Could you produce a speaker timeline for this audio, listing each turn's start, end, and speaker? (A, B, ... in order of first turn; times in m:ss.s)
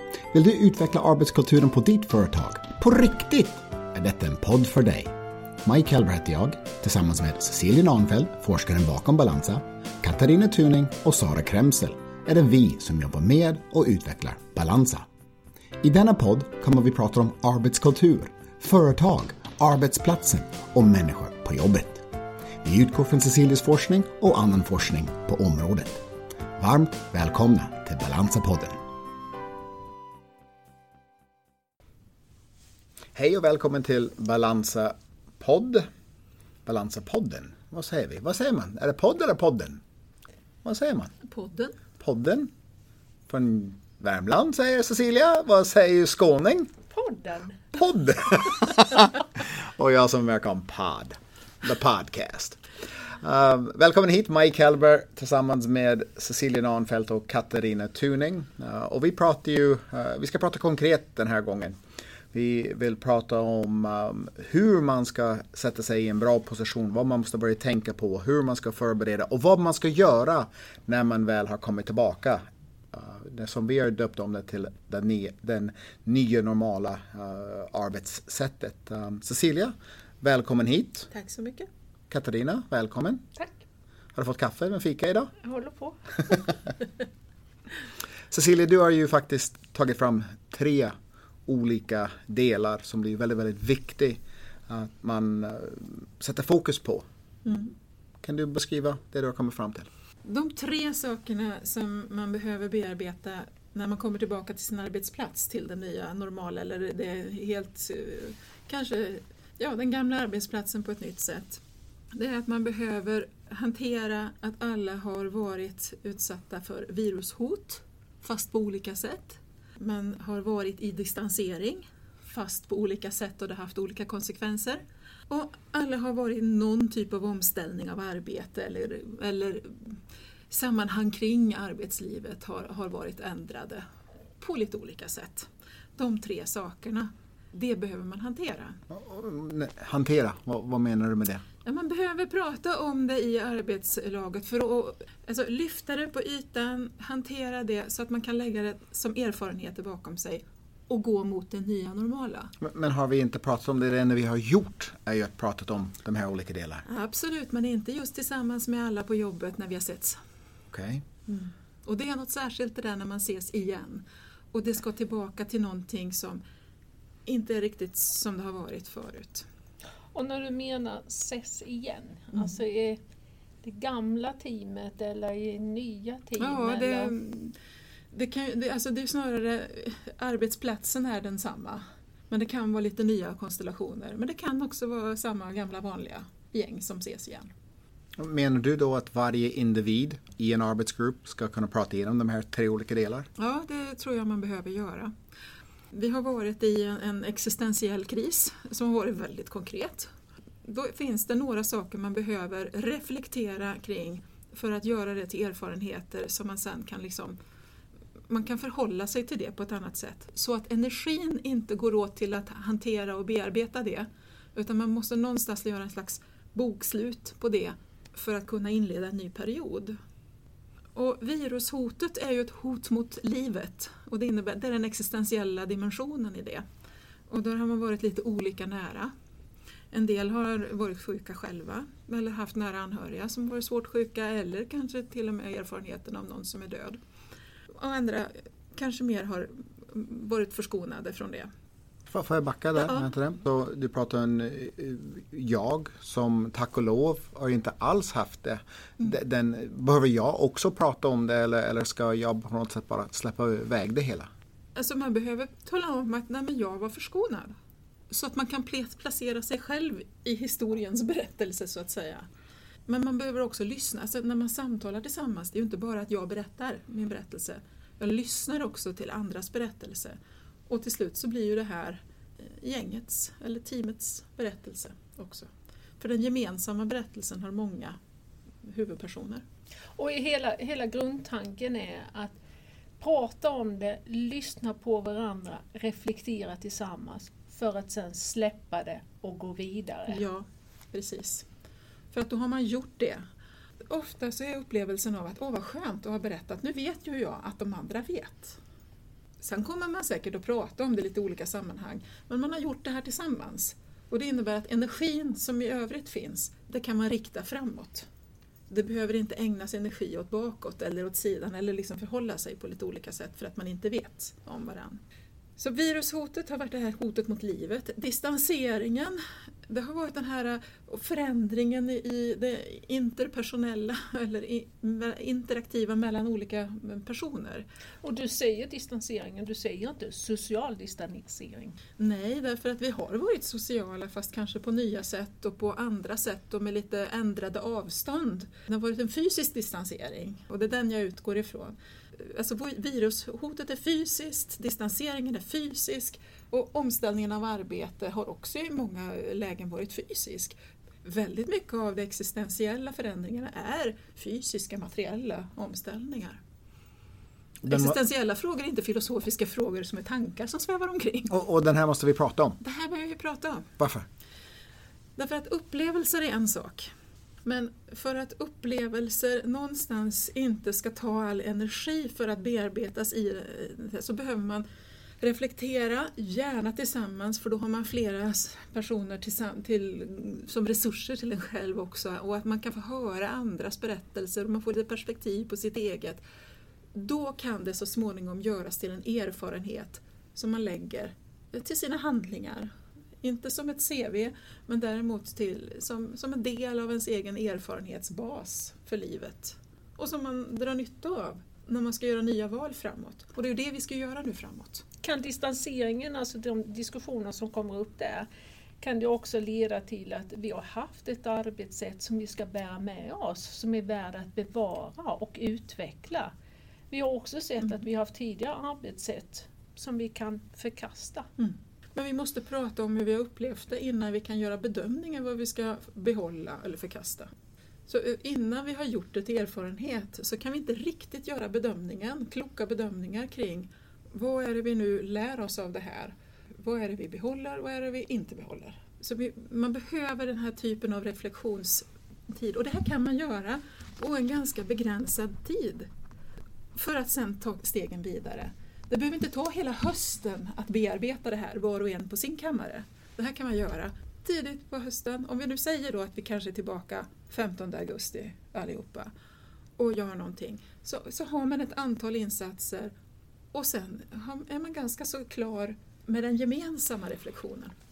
0:00.3-0:05.1 A
0:05.6-0:15.0 A
0:15.8-0:22.1 A
0:22.6-0:26.0 A
0:26.6-0:28.8 A
0:33.2-0:35.9 A
0:36.6-0:39.8 A
0:40.6-0:41.1 A
0:41.2-0:41.8 B
0:42.0-0:42.5 A
0:43.3-0:46.7 A
0:46.9-0:47.6 C
0:47.8-0:52.6 A
0:53.2-1:01.8 A
1:02.3-1:21.1 A
1:21.1-1:21.7 B
1:22.1-1:23.2 A
1:24.2-1:25.3 A
1:25.4-1:26.7 C
1:28.3-1:30.9 A
1:31.5-1:37.0 A
1:37.4-1:37.7 B
1:38.2-1:39.9 A
1:40.2-1:51.6 B
1:52.1-2:10.0 B
2:10.5-2:13.8 B
2:14.4-2:18.8 B
2:18.9-2:21.4 A
2:21.6-2:32.5 B
2:32.6-2:36.8 A
2:36.9-2:40.2 B
2:40.7-2:41.0 A
2:41.3-2:46.4 B
2:47.3-2:49.4 B
2:50.1-2:53.0 C
2:52.3-2:52.6 B
2:53.6-2:57.1 C
2:56.4-2:57.5 B
2:58.1-3:07.5 B
3:08.2-3:13.3 A
3:13.4-3:15.1 B
3:15.9-3:20.1 B
3:20.6-3:27.4 B
3:28.3-3:40.0 B
3:41.0-3:46.6 B
3:47.3-3:49.1 B
3:49.9-3:57.0 B
3:57.8-4:01.5 B
4:02.1-4:14.3 A
4:02.8-4:03.1 B
4:14.8-4:17.5 B
4:18.1-4:22.3 B
4:22.9-4:30.2 B
4:30.7-4:35.5 B
4:36.0-4:38.0 B
4:38.7-4:39.4 B
4:40.0-4:42.4 C
4:43.0-4:50.2 C
4:50.1-4:51.5 B
4:52.1-4:53.2 B
4:53.9-4:58.6 B
4:59.4-5:08.1 B
5:08.7-5:15.0 B
5:15.6-5:27.6 B
5:28.0-5:31.8 C
5:32.0-5:56.4 B
5:57.6-5:57.9 A
5:57.7-6:01.3 B
6:01.3-6:02.6 A
6:02.6-6:03.7 B
6:03.8-6:04.1 A
6:05.2-6:06.9 B
6:07.4-6:14.6 B
6:15.2-6:26.2 B
6:27.0-6:32.7 B
6:33.2-6:44.8 B
6:45.0-6:48.3 C
6:48.8-6:56.3 C
6:56.9-7:01.3 C
7:01.4-7:07.3 B
7:07.9-7:25.9 B
7:26.8-7:39.1 B
7:39.8-7:42.9 B
7:43.5-7:47.7 B